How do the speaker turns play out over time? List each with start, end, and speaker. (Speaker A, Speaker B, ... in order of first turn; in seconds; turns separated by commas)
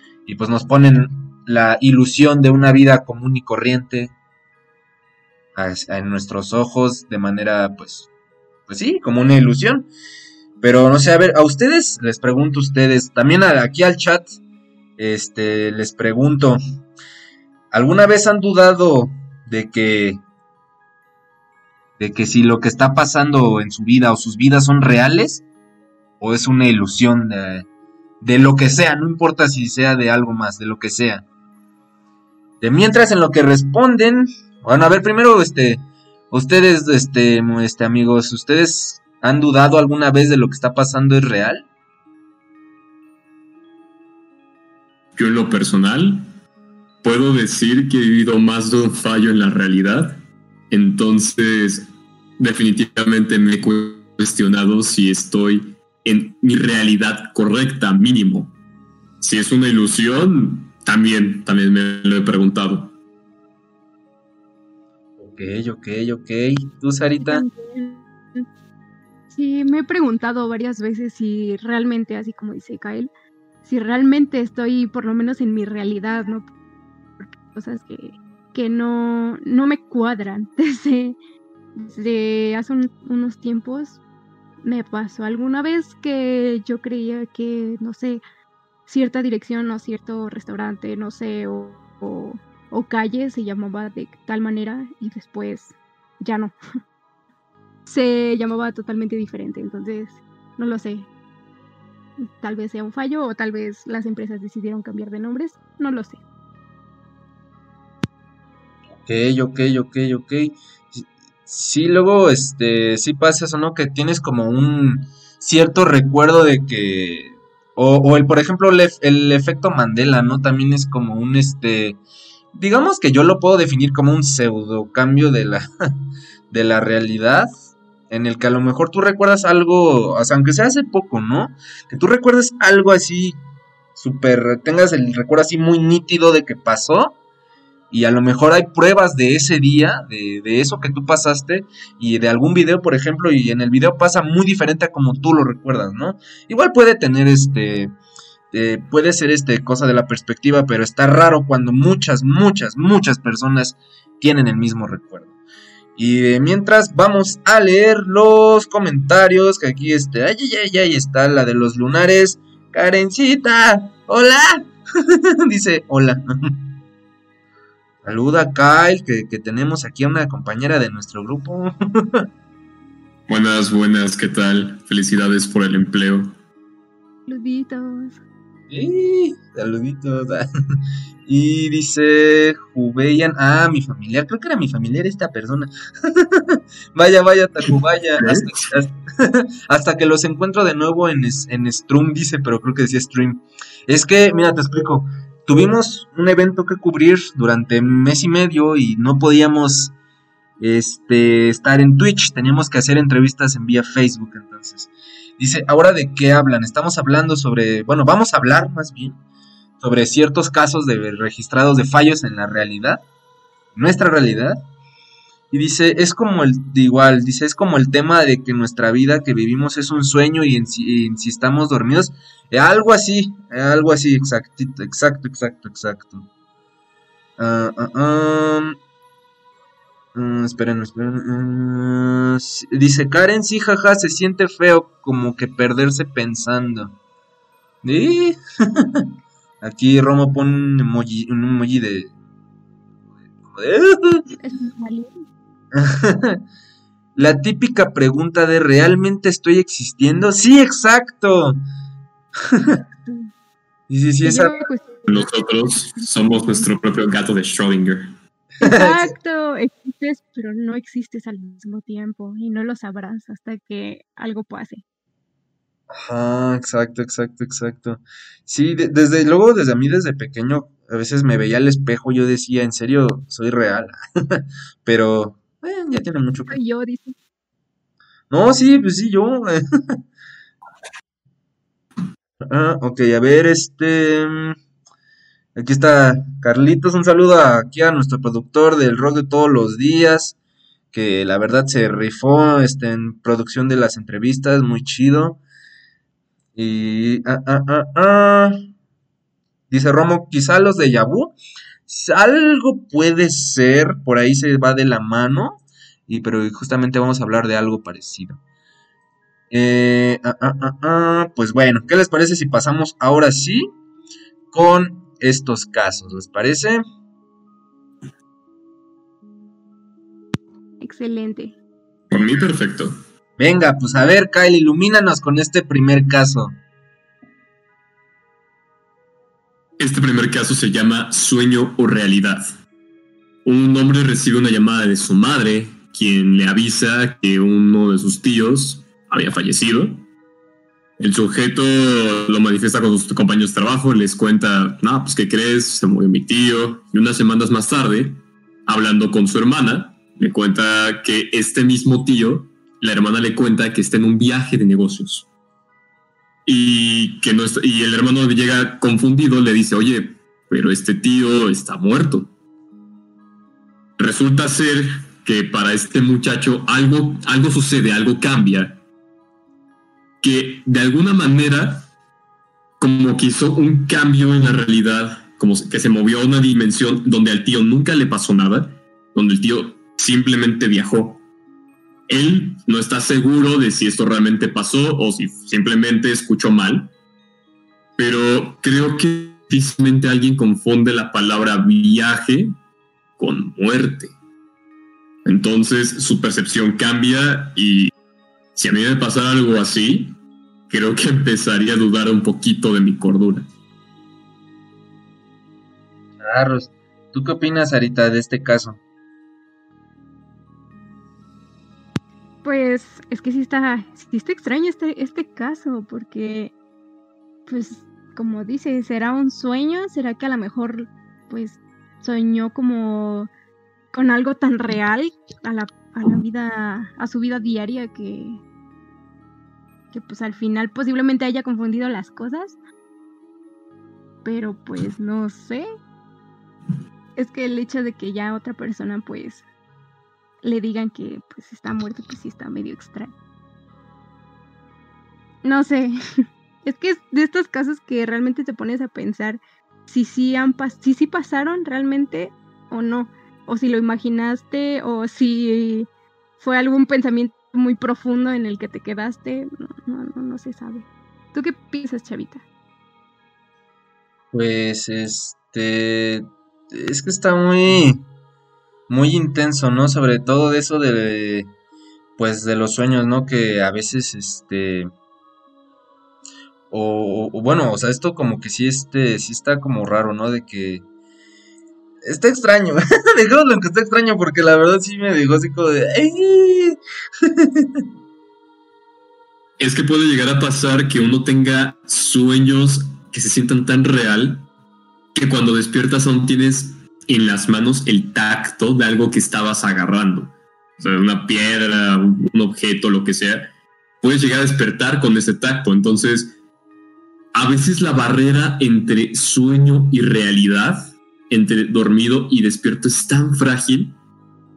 Speaker A: 0.3-4.1, Speaker A: 5.5-8.1, Speaker A: 8.7-9.9, Speaker A: 10.6-14.4, Speaker A: 15.0-16.6, Speaker A: 17.7-20.2, Speaker A: 22.0-25.4, Speaker A: 26.2-27.7, Speaker A: 28.2-31.2, Speaker A: 32.6-41.7, Speaker B: 45.1-46.2, Speaker B: 47.0-50.2, Speaker B: 50.7-58.5, Speaker B: 59.2-62.9, Speaker A: 65.2-67.5, Speaker C: 67.2-68.5, Speaker C: 69.3-73.1, Speaker C: 73.6-76.5, Speaker C: 77.2-81.2, Speaker C: 81.8-84.0, Speaker C: 84.6-88.2, Speaker C: 88.9-96.5, Speaker C: 97.9-101.1, Speaker C: 102.2-106.2, Speaker A: 109.0-122.0, Speaker A: 122.5-125.7, Speaker A: 126.5-127.5, Speaker A: 128.1-133.4, Speaker A: 133.9-137.2, Speaker A: 137.9-147.9, Speaker A: 148.5-155.3, Speaker A: 156.0-166.7, Speaker A: 168.0-172.2, Speaker B: 173.3-176.3, Speaker C: 177.3-178.2, Speaker A: 178.7-180.4, Speaker A: 181.3-199.9, Speaker B: 187.7-188.7, Speaker A: 200.6-209.2, Speaker A: 209.8-213.0, Speaker A: 213.8-214.6, Speaker A: 215.5-226.3, Speaker A: 227.4-228.8, Speaker A: 230.2-236.9, Speaker A: 237.8-239.1, Speaker A: 239.6-242.1, Speaker A: 243.4-244.3, Speaker C: 244.3-245.2, Speaker A: 245.7-246.4, Speaker A: 247.2-251.6, Speaker A: 252.5-252.8, Speaker A: 253.9-254.6, Speaker C: 254.2-255.3, Speaker B: 255.1-258.1, Speaker A: 258.6-259.1, Speaker C: 258.6-264.8, Speaker A: 265.9-276.6, Speaker C: 276.5-277.1, Speaker A: 278.3-279.6, Speaker A: 282.4-284.6, Speaker A: 285.6-290.4, Speaker A: 290.9-295.4, Speaker A: 296.6-298.7, Speaker A: 299.7-301.4, Speaker A: 301.9-308.4, Speaker A: 309.5-313.7, Speaker A: 314.5-316.8, Speaker C: 320.8-321.6, Speaker B: 322.1-323.0, Speaker A: 323.4-326.6, Speaker B: 329.8-332.5, Speaker B: 333.4-340.0, Speaker B: 341.0-355.3, Speaker B: 356.5-362.3, Speaker B: 364.0-368.8, Speaker B: 370.2-371.9, Speaker B: 372.8-381.2, Speaker B: 382.1-386.9, Speaker B: 388.0-392.6, Speaker B: 393.2-394.1, Speaker B: 395.2-397.9, Speaker B: 398.6-400.2, Speaker B: 400.7-403.5, Speaker A: 406.2-408.8, Speaker C: 412.4-416.5, Speaker C: 417.5-423.3, Speaker C: 423.9-428.4, Speaker C: 429.9-432.6, Speaker C: 434.2-435.7, Speaker C: 437.2-439.4, Speaker C: 440.4-443.1, Speaker C: 445.4-445.9, Speaker C: 446.6-455.9, Speaker C: 456.4-462.4, Speaker A: 464.3-468.0, Speaker A: 468.9-471.5, Speaker A: 472.2-474.9, Speaker A: 476.7-480.9, Speaker A: 482.1-487.9, Speaker B: 489.6-494.5, Speaker B: 495.1-506.4, Speaker B: 507.3-514.0